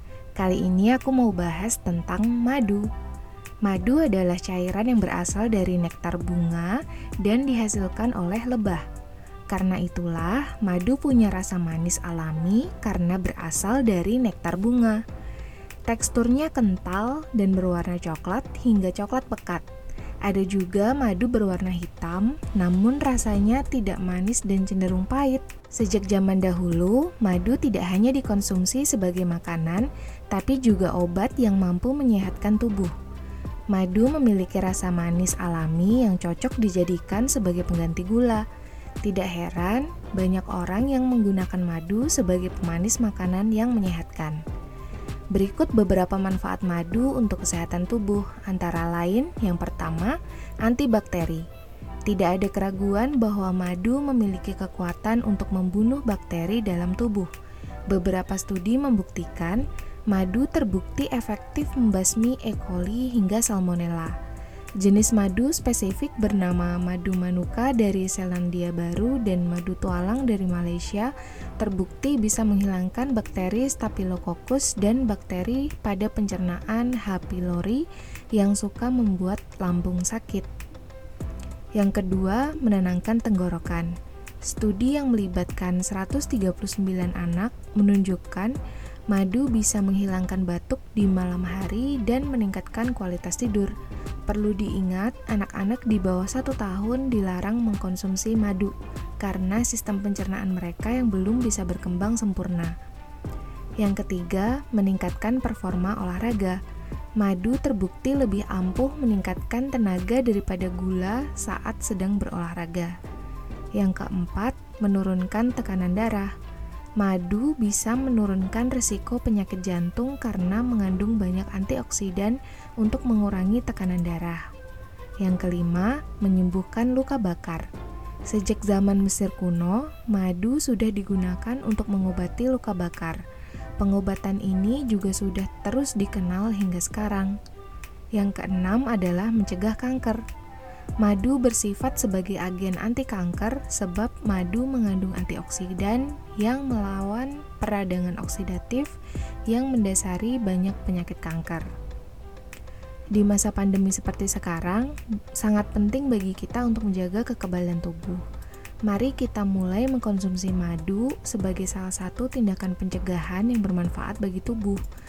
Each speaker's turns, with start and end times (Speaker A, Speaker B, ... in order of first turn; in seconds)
Speaker A: 0.4-2.9, 3.6-8.8, 9.5-15.0, 15.9-19.6, 20.2-32.9, 33.7-38.5, 39.0-44.4, 45.3-51.5, 52.1-57.3, 57.9-64.2, 64.8-77.8, 78.3-80.5, 81.8-83.9, 84.5-88.5, 89.1-93.7, 94.3-102.7, 103.8-106.6, 107.2-112.9, 113.8-116.3, 117.0-124.4, 125.2-127.7, 128.3-133.2, 133.8-137.3, 138.2-140.2, 141.0-148.9, 149.5-151.7, 153.2-158.2, 158.9-164.8